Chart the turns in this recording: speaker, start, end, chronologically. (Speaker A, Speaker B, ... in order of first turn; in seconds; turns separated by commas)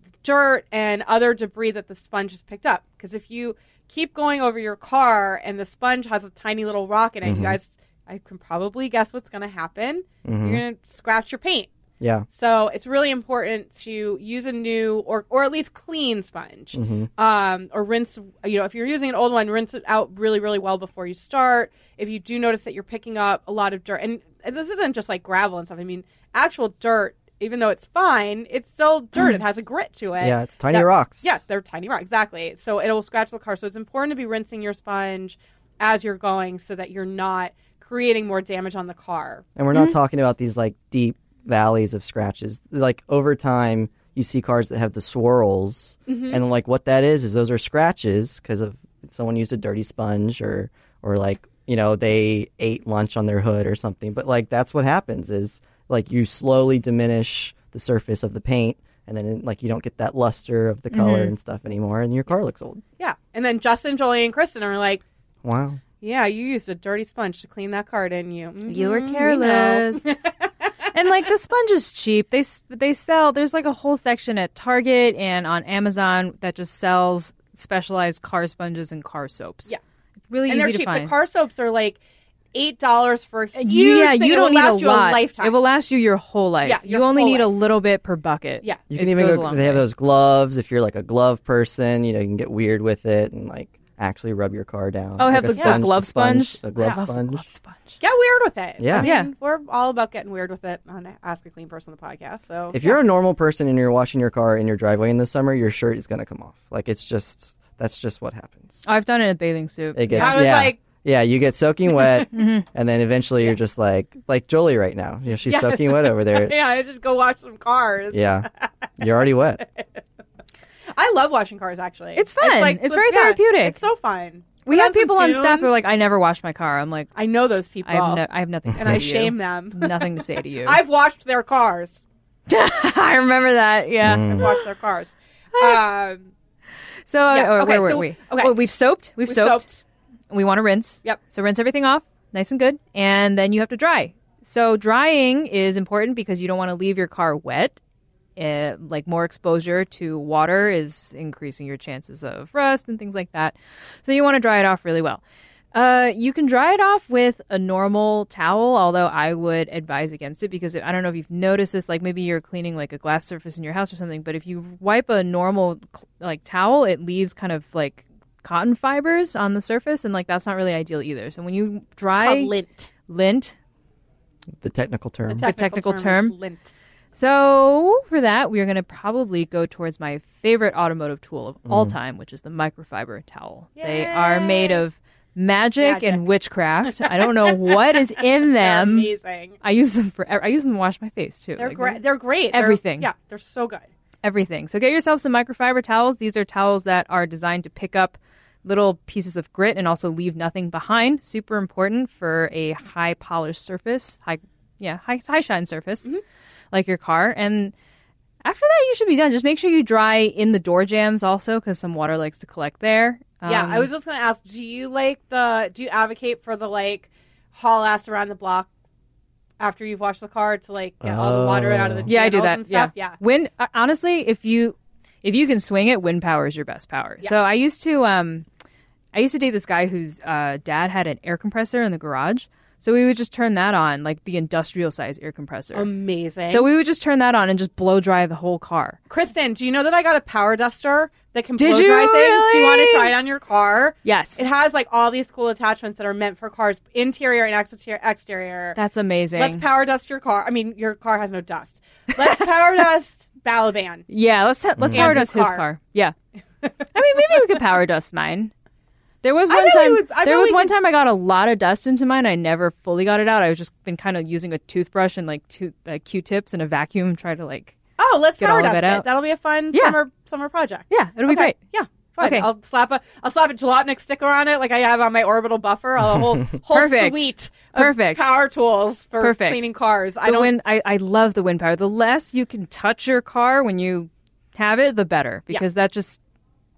Speaker A: 0.2-11.7, Speaker B: 7.2-7.6, Speaker B: 10.2-10.6, Speaker B: 12.0-12.3, Speaker A: 12.3-39.5, Speaker B: 16.7-17.1, Speaker B: 30.2-31.4, Speaker B: 39.6-62.8, Speaker A: 46.1-46.4, Speaker C: 60.9-61.3, Speaker A: 63.0-65.0, Speaker B: 65.4-65.8, Speaker A: 66.0-70.3, Speaker C: 68.7-70.1, Speaker C: 70.9-79.7, Speaker C: 80.3-81.1, Speaker A: 80.5-82.0, Speaker A: 82.5-85.5, Speaker C: 83.6-89.8, Speaker A: 86.6-87.5, Speaker B: 88.9-97.5, Speaker C: 95.2-98.0, Speaker A: 95.5-95.8, Speaker A: 98.0-103.0, Speaker B: 98.8-99.1, Speaker C: 99.0-99.3, Speaker B: 102.7-108.8, Speaker C: 108.8-110.5, Speaker B: 110.0-116.5, Speaker A: 110.1-110.8, Speaker C: 112.3-112.7, Speaker A: 115.5-118.7, Speaker B: 118.1-119.6, Speaker A: 120.9-125.7, Speaker C: 122.2-123.8, Speaker C: 124.7-127.1, Speaker A: 127.2-128.2, Speaker C: 127.9-130.8, Speaker B: 128.7-129.0, Speaker A: 128.8-130.1, Speaker A: 130.6-132.0, Speaker C: 132.5-134.6, Speaker B: 134.0-134.5, Speaker A: 134.3-136.3, Speaker C: 135.6-135.8, Speaker C: 137.1-139.7, Speaker A: 137.3-138.5, Speaker A: 139.2-139.8, Speaker C: 140.3-147.8, Speaker C: 148.4-155.2, Speaker C: 155.7-172.5, Speaker A: 172.2-172.9, Speaker C: 173.1-173.6, Speaker B: 174.6-175.5, Speaker A: 175.3-176.7, Speaker C: 175.4-176.3, Speaker C: 177.2-192.0, Speaker B: 181.7-182.0, Speaker A: 183.8-184.8, Speaker A: 185.8-186.2, Speaker A: 186.9-189.6, Speaker A: 191.6-193.9, Speaker C: 192.5-193.1, Speaker C: 194.2-206.1, Speaker C: 206.7-207.7, Speaker C: 208.4-213.9, Speaker A: 213.5-218.7, Speaker A: 219.6-223.2, Speaker B: 221.0-222.1, Speaker C: 222.1-228.5, Speaker C: 229.1-235.9, Speaker A: 235.7-236.7, Speaker C: 236.5-239.0, Speaker A: 239.1-248.8, Speaker C: 241.6-243.1, Speaker C: 244.1-244.4, Speaker C: 248.8-249.6, Speaker A: 249.4-254.1, Speaker C: 254.1-256.1, Speaker B: 254.8-255.2, Speaker A: 254.9-255.6, Speaker C: 256.9-258.5, Speaker C: 259.2-267.8, Speaker A: 259.5-260.7, Speaker A: 268.0-280.5, Speaker C: 268.4-269.1, Speaker C: 269.7-270.0, Speaker C: 270.9-271.6, Speaker C: 272.2-272.5, Speaker C: 276.7-278.3, Speaker C: 279.2-279.7, Speaker C: 280.2-286.2